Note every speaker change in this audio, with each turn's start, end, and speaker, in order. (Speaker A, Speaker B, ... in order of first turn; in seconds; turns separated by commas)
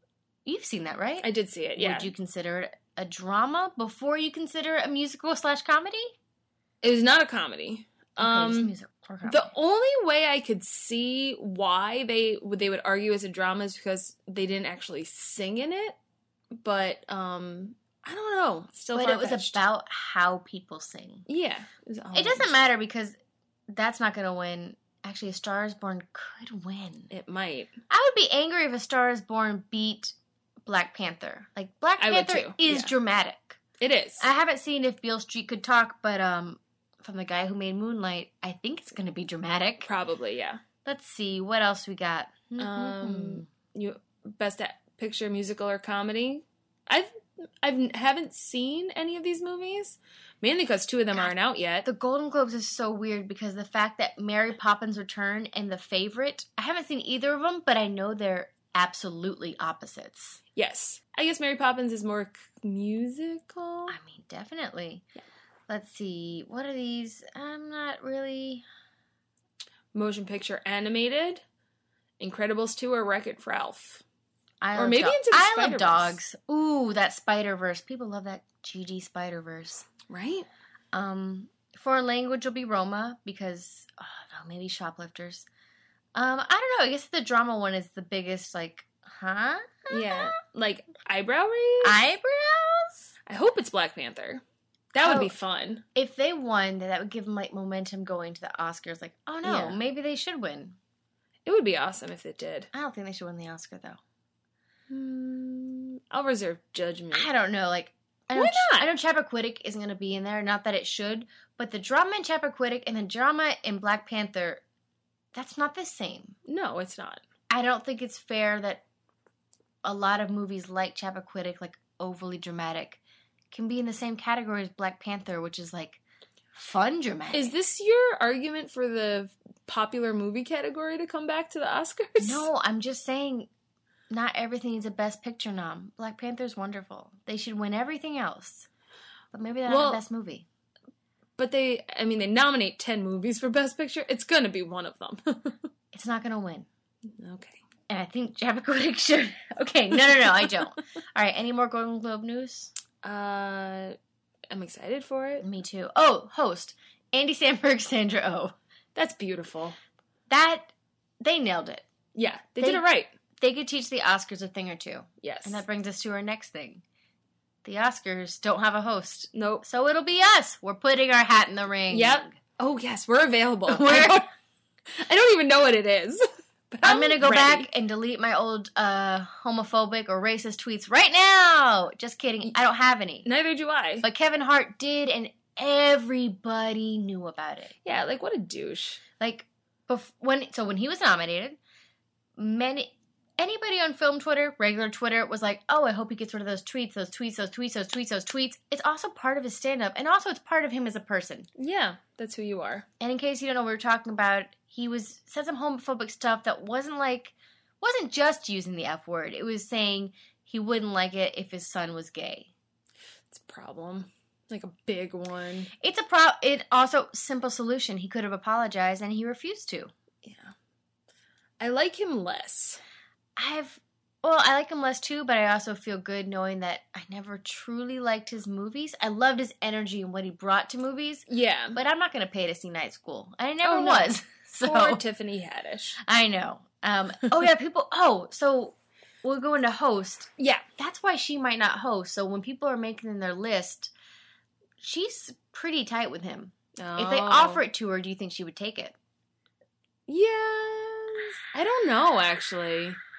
Speaker A: 0.5-6.2, Speaker B: 1.2-2.1, Speaker B: 6.8-8.7, Speaker A: 8.2-9.5, Speaker B: 9.3-16.0, Speaker B: 16.5-19.6, Speaker A: 18.9-21.2, Speaker B: 21.3-22.5, Speaker A: 22.1-23.2, Speaker A: 23.7-27.1, Speaker B: 27.1-27.7, Speaker A: 27.9-33.6, Speaker B: 32.0-32.9, Speaker B: 33.8-34.3, Speaker A: 34.2-39.9, Speaker B: 39.9-40.6, Speaker A: 40.9-43.5, Speaker B: 42.6-51.9, Speaker A: 51.8-60.4, Speaker B: 60.5-64.0, Speaker A: 63.9-65.0, Speaker A: 65.7-68.7, Speaker B: 69.9-71.4, Speaker B: 72.2-74.0, Speaker A: 74.6-79.9, Speaker B: 74.8-76.2, Speaker B: 80.1-80.5, Speaker A: 80.9-85.5, Speaker A: 86.2-90.3, Speaker B: 89.9-92.0, Speaker A: 91.8-93.1, Speaker B: 93.3-94.4, Speaker B: 94.9-95.8, Speaker A: 95.0-95.3, Speaker A: 96.0-100.8, Speaker B: 99.4-99.8, Speaker B: 101.5-102.7, Speaker A: 102.7-104.0, Speaker B: 104.9-107.3, Speaker A: 107.1-114.6, Speaker B: 108.3-108.9, Speaker A: 115.3-116.3, Speaker B: 116.5-117.2, Speaker A: 117.5-118.8, Speaker A: 119.8-123.0, Speaker A: 123.5-126.0, Speaker A: 126.5-127.5, Speaker B: 127.3-132.5, Speaker A: 132.2-133.5, Speaker A: 134.1-138.7, Speaker A: 139.3-140.4, Speaker B: 139.7-140.0, Speaker B: 141.4-145.6, Speaker A: 145.9-146.7, Speaker B: 147.2-147.6, Speaker A: 147.9-152.7, Speaker B: 153.0-154.0, Speaker B: 154.5-155.4, Speaker A: 155.4-158.6, Speaker B: 158.9-159.8, Speaker A: 160.3-161.9, Speaker B: 162.2-163.1, Speaker A: 162.6-162.8, Speaker A: 163.4-166.8, Speaker B: 165.2-165.6, Speaker A: 167.6-172.4, Speaker B: 169.3-169.7, Speaker B: 171.9-174.3, Speaker A: 173.7-174.3, Speaker B: 174.9-177.7, Speaker A: 176.8-183.3, Speaker B: 183.2-184.1, Speaker A: 184.0-187.8, Speaker B: 187.8-189.0, Speaker A: 189.2-191.6, Speaker A: 192.4-201.5, Speaker B: 201.6-202.9, Speaker A: 203.0-212.5, Speaker B: 213.3-215.7, Speaker A: 215.8-219.9, Speaker B: 220.2-220.5, Speaker B: 221.6-222.8, Speaker A: 223.4-235.0, Speaker B: 231.3-231.8, Speaker B: 233.6-236.0, Speaker A: 236.0-243.9, Speaker B: 240.4-240.6, Speaker A: 244.8-248.9, Speaker B: 246.8-247.6, Speaker B: 250.1-253.0